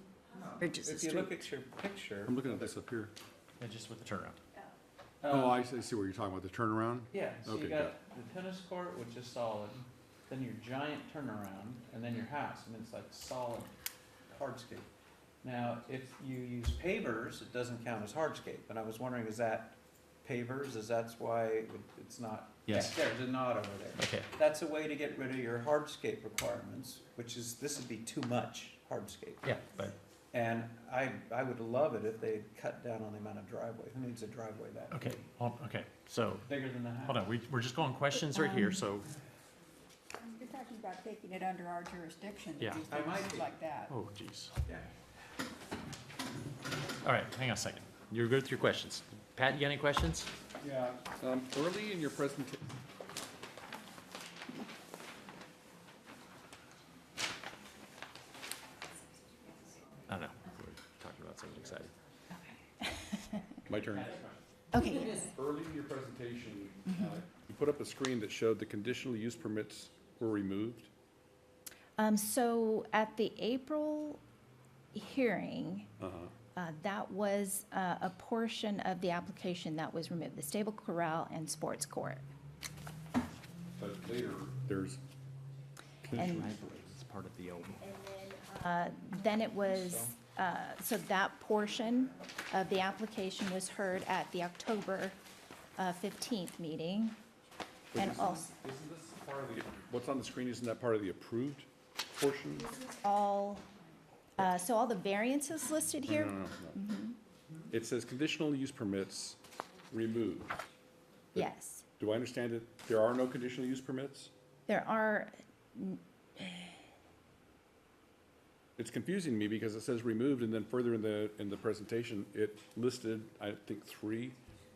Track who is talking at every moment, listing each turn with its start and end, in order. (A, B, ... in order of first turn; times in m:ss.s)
0:00.3-0:02.7 A
0:00.6-0:01.3 B
0:02.2-0:03.1 C
0:03.6-0:04.4 D
0:05.2-0:05.6 A
0:05.3-0:08.0 C
0:07.1-0:13.7 A
0:14.3-0:14.9 A
0:15.4-0:29.6 A
0:22.7-0:23.0 D
0:24.0-0:24.3 D
0:29.4-0:30.0 D
0:30.3-0:35.2 A
0:34.9-0:36.5 D
0:36.5-0:37.2 A
0:37.0-0:39.1 D
0:38.4-0:38.8 B
0:40.4-0:43.9 B
0:42.6-0:42.9 D
0:42.9-0:43.5 A
0:43.9-0:44.6 D
0:47.0-0:50.3 D
0:50.6-0:52.7 C
1:00.1-1:01.9 D
1:02.3-1:03.5 E
1:03.7-1:04.2 C
1:03.8-1:04.4 D
1:04.7-1:05.3 E
1:04.8-1:10.9 C
1:06.9-1:07.2 E
1:12.0-1:14.2 E
1:14.9-1:15.9 E
1:16.0-1:16.3 C
1:16.6-1:22.2 E
1:23.8-1:25.0 C
1:26.0-1:26.9 C
1:26.1-1:26.5 E
1:26.2-1:27.8 D
1:27.8-1:35.2 E
1:29.7-1:30.2 A
1:35.8-1:37.2 E
1:37.9-1:42.7 C
1:37.9-1:38.5 E
1:43.0-1:43.6 E
1:44.4-1:47.2 E
1:46.0-1:46.8 C
1:47.7-1:49.4 C
1:49.9-1:50.6 C
1:51.4-1:51.8 E
1:52.0-1:54.3 C
1:54.7-1:56.8 E
1:58.8-2:04.4 C